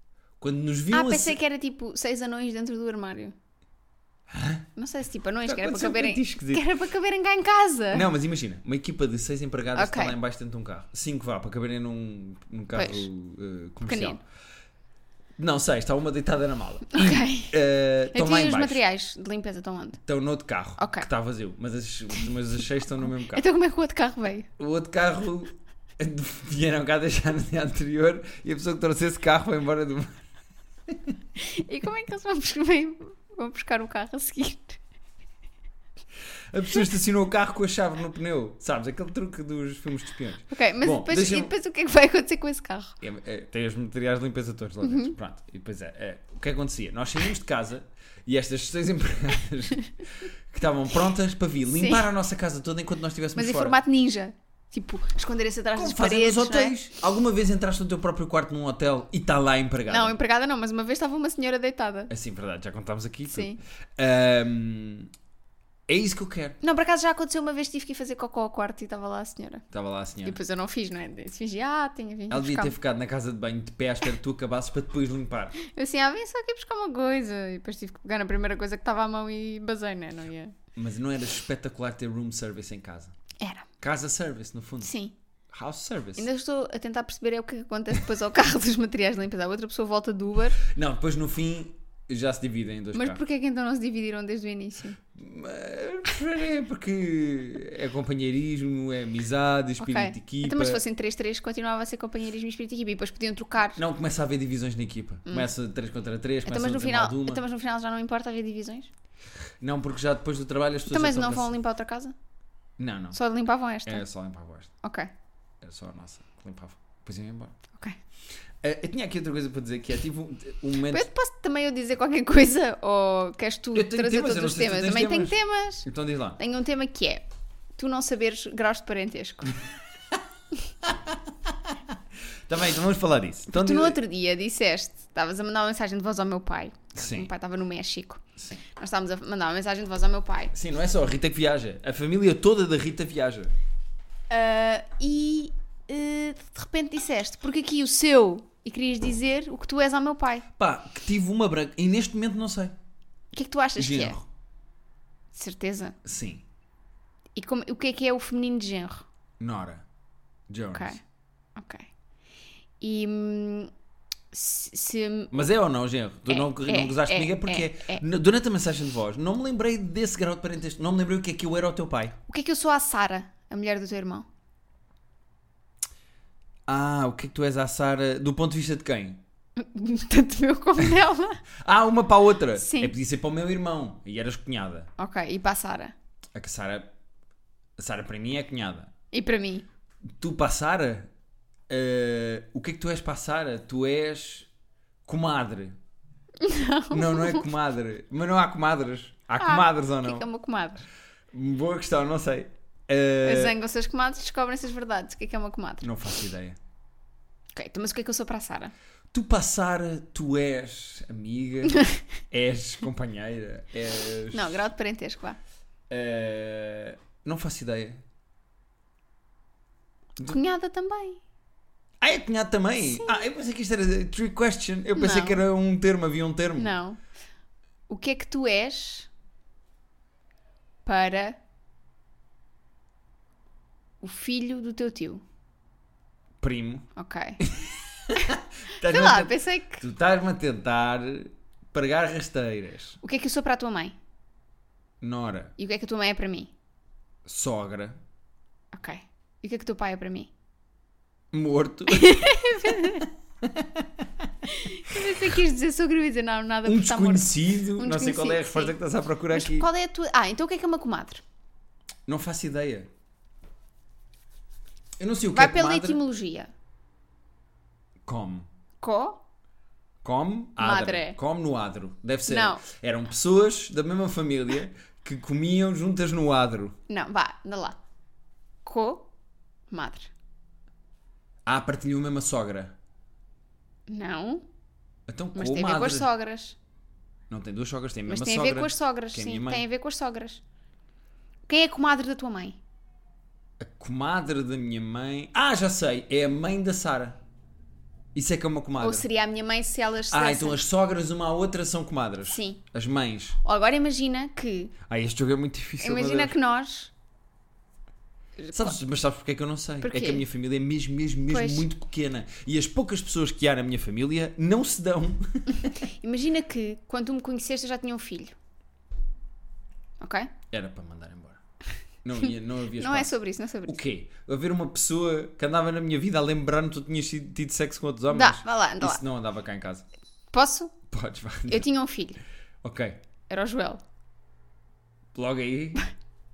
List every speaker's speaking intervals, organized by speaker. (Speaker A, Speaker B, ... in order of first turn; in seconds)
Speaker A: 0.4-1.4, 4.3-4.7, 5.4-6.7, 7.9-14.2, 15.4-18.8, 20.1-23.4, 24.6-30.2, 30.9-31.1, 36.5-41.5, 43.0-53.8, 55.7-60.1, 62.1-65.1, 65.9-66.6, 69.7-70.4, 72.3-75.6, 80.7-83.1, 83.8-84.9, 85.5-86.3, 90.6-93.2, 95.1-100.8, 103.8-107.4, 109.6-111.5, 112.8-113.2, 113.8-114.7, 115.6-117.5, 118.6-121.1, 123.7-126.4, 130.8-131.1, 132.5-134.0, 136.9-137.3, 140.5-143.5, 150.6-152.7, 153.8-154.2, 156.0-156.4, 159.4-159.8, 160.5-161.0, 165.3-172.2, 176.7-179.2, 181.6-184.9, 186.3-186.9, 187.8-188.9, 190.2-191.1, 191.7-194.5, 195.1-195.8, 196.9-200.2, 201.3-203.6, 205.8-206.6, 209.1-214.6, 215.9-218.0, 222.0-226.7, 236.4-236.9, 237.4-243.0, 245.0-245.5, 247.2-248.0, 251.3-254.3, 254.9-255.3, 256.6-259.7, 262.1-262.9, 265.0-266.0, 268.0-268.5, 270.0-276.8, 281.4-282.7, 285.1-286.1, 287.3-289.6, 293.6-297.2, 298.1-299.1, 300.1-303.4, 304.9-306.4, 308.5-315.7, 320.5-321.4, 322.0-329.9, 330.9-331.7, 332.6-333.0, 335.1-335.8
Speaker B: 0.9-3.3, 4.8-8.1, 9.7-10.2, 12.7-13.1, 13.8-14.2, 16.9-17.6, 18.1-20.0, 20.8-21.1, 23.3-24.5, 31.4-34.8, 40.5-43.0, 44.8-45.1, 51.7-52.0, 53.4-56.8, 59.9-62.1, 63.3-63.6, 66.6-69.6, 70.2-72.7, 75.6-80.5, 83.4-83.7, 84.8-85.1, 86.2-90.6, 92.9-95.0, 99.8-103.8, 106.5-108.9, 110.9-112.1, 113.1-114.0, 114.8-115.1, 120.9-125.8, 126.4-127.2, 127.8-129.6, 133.5-140.5, 144.3-150.5, 153.3-154.2, 155.3-155.9, 157.3-159.1, 160.7-161.0, 161.6-161.9, 162.8-163.7, 164.3-165.4, 166.3-168.0, 172.3-174.3, 179.6-181.4, 182.6-182.9, 185.0-185.9, 189.1-189.6, 196.4-197.4, 199.4-200.9, 203.2-205.9, 207.5-208.7, 211.7-212.0, 214.3-215.4, 220.2-221.2, 222.8-223.2, 224.9-225.4, 226.6-227.0, 227.9-229.1, 230.8-231.4, 234.0-235.2, 236.9-237.4, 238.1-239.8, 243.0-243.9, 245.6-246.5, 248.7-250.3, 251.9-253.1, 254.4-258.7, 259.3-261.2, 265.3-266.5, 268.8-269.2, 270.6-271.2, 272.3-272.6, 276.9-277.8, 278.6-279.1, 279.7-280.1, 283.9-284.4, 285.3-286.6, 288.1-290.4, 291.5-292.6, 298.8-300.6, 302.3-302.6, 303.4-304.7, 305.8-306.9, 308.4-308.8, 309.8-310.2, 311.3-311.7, 315.5-318.3, 320.0-320.3, 322.3-323.8, 328.1-329.0, 330.3-330.7, 331.5-332.2, 333.3-333.8